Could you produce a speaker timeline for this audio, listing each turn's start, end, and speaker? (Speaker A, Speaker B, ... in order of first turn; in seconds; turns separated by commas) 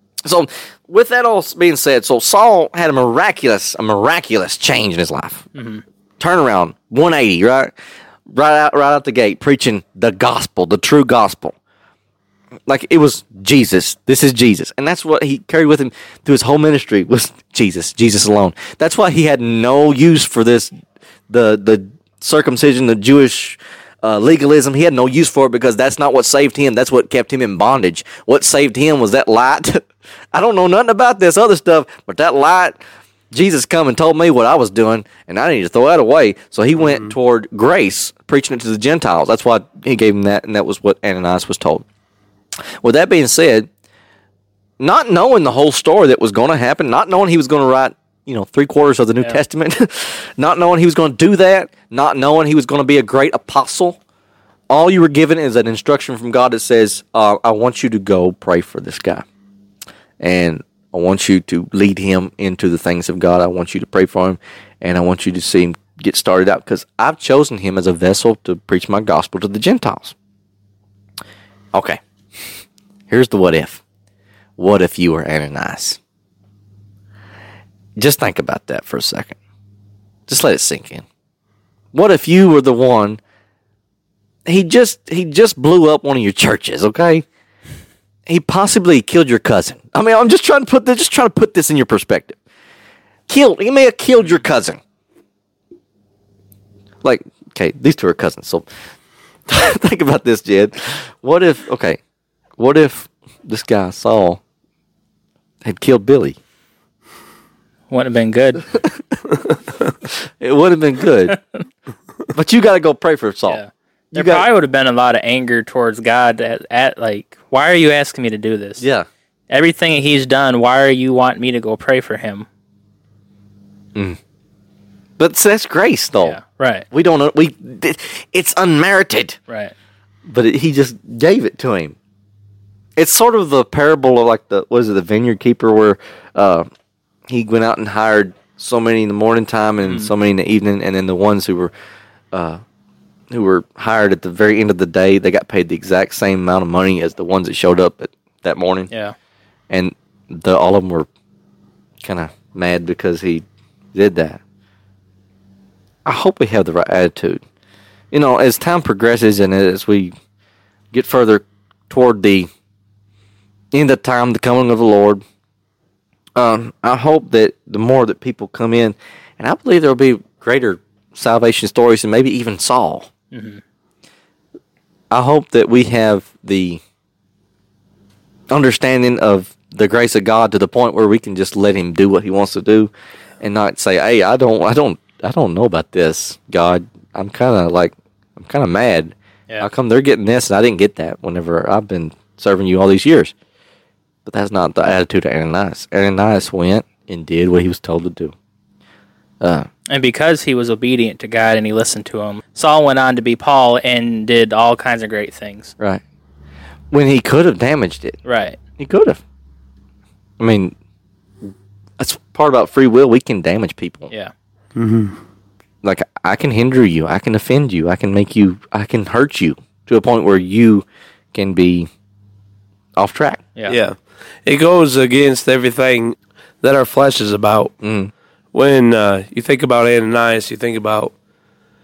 Speaker A: 0.2-5.5, Speaker B: 5.5-5.8, Speaker A: 6.2-7.7, Speaker A: 8.3-11.6, Speaker A: 12.7-20.7, Speaker A: 21.3-32.8, Speaker A: 33.3-41.8, Speaker C: 36.8-37.1, Speaker A: 42.8-43.7, Speaker A: 44.8-54.0, Speaker A: 54.7-59.2, Speaker A: 60.2-70.1, Speaker A: 71.7-72.0, Speaker A: 73.1-73.8, Speaker A: 74.6-76.0, Speaker A: 78.0-79.3, Speaker A: 80.3-81.0, Speaker A: 81.9-83.2, Speaker A: 84.5-87.2, Speaker A: 88.3-92.4, Speaker A: 93.3-94.8, Speaker A: 97.0-98.7, Speaker A: 99.5-102.0, Speaker A: 102.6-104.4, Speaker A: 105.6-106.4, Speaker B: 107.9-108.7, Speaker A: 110.0-111.4, Speaker A: 112.3-113.6, Speaker B: 113.5-118.8, Speaker A: 114.1-114.5, Speaker A: 118.8-119.0, Speaker B: 119.5-122.5, Speaker A: 125.2-126.4, Speaker B: 126.2-126.8, Speaker A: 126.9-129.4, Speaker A: 130.3-131.9, Speaker A: 133.0-136.7, Speaker A: 137.3-141.7, Speaker B: 139.8-140.1, Speaker A: 142.3-142.6, Speaker A: 143.3-148.9, Speaker A: 149.7-151.1, Speaker A: 152.0-154.4, Speaker A: 156.0-157.4, Speaker A: 158.1-160.1, Speaker A: 160.9-162.5, Speaker A: 163.7-165.2, Speaker A: 166.3-173.1, Speaker B: 173.3-173.6, Speaker A: 175.1-176.8, Speaker A: 178.5-193.3, Speaker A: 194.2-198.3, Speaker A: 199.4-199.7, Speaker B: 199.9-205.7, Speaker A: 206.9-208.2, Speaker B: 208.2-208.6, Speaker A: 208.8-209.2, Speaker A: 210.4-210.7, Speaker A: 212.0-214.1, Speaker C: 214.7-215.2, Speaker A: 215.8-221.9, Speaker A: 223.0-223.5, Speaker C: 223.7-227.7, Speaker A: 227.8-228.1, Speaker C: 228.5-231.1